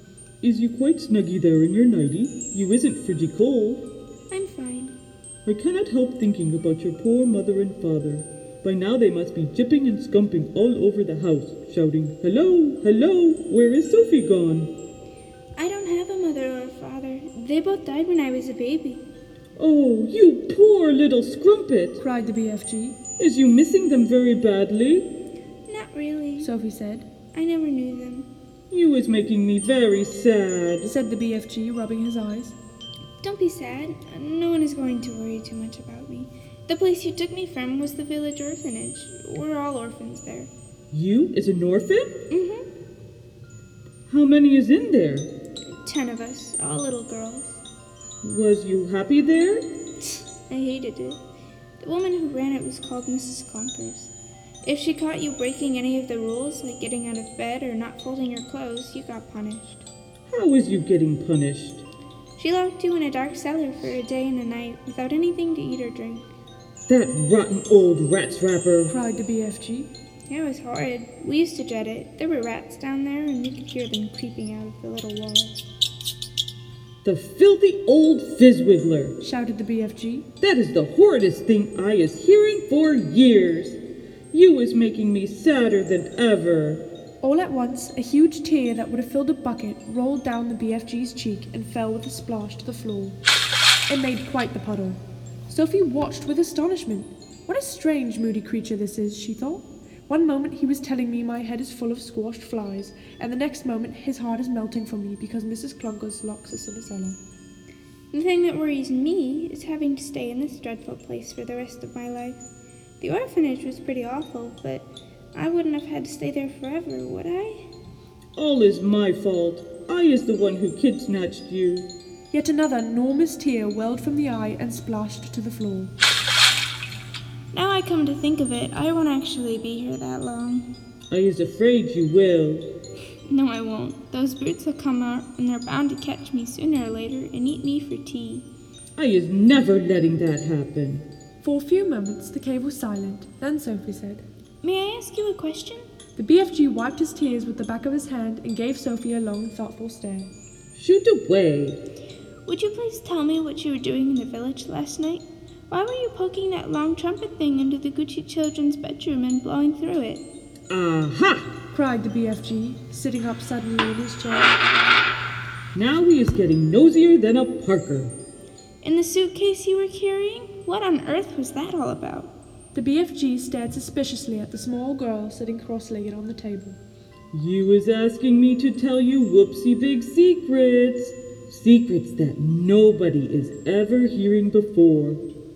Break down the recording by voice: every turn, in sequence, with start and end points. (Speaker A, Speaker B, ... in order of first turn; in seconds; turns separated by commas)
Speaker A: 0.4-3.8, Speaker B: 4.3-4.9, Speaker A: 5.5-14.7, Speaker B: 15.6-19.0, Speaker A: 19.6-22.0, Speaker C: 22.0-23.0, Speaker A: 23.2-25.0, Speaker B: 25.7-26.5, Speaker C: 26.4-27.1, Speaker B: 27.3-28.3, Speaker A: 28.7-30.9, Speaker C: 30.8-32.5, Speaker B: 33.2-40.5, Speaker A: 40.9-42.1, Speaker B: 42.3-42.6, Speaker A: 44.1-45.3, Speaker B: 45.7-47.6, Speaker A: 48.2-49.6, Speaker B: 50.2-51.2, Speaker B: 51.8-54.1, Speaker B: 54.6-59.8, Speaker A: 60.3-61.8, Speaker B: 62.4-66.2, Speaker A: 66.9-69.0, Speaker C: 68.9-69.9, Speaker B: 70.3-75.6, Speaker A: 77.0-79.2, Speaker C: 79.2-80.3, Speaker A: 80.4-83.8, Speaker A: 84.3-86.8, Speaker C: 87.2-93.2, Speaker C: 93.9-107.2, Speaker B: 108.1-112.4, Speaker B: 113.0-117.7, Speaker A: 118.3-121.9, Speaker C: 122.3-125.9, Speaker B: 127.5-130.7, Speaker A: 131.1-132.6, Speaker B: 133.3-138.4, Speaker A: 138.9-141.0, Speaker C: 141.4-144.2, Speaker B: 144.6-145.8, Speaker C: 146.2-150.3, Speaker A: 150.7-151.8, Speaker B: 152.4-160.2, Speaker A: 160.7-161.5, Speaker C: 161.7-164.6, Speaker A: 165.7-168.1, Speaker B: 168.8-172.3, Speaker C: 172.7-176.8, Speaker A: 177.3-185.2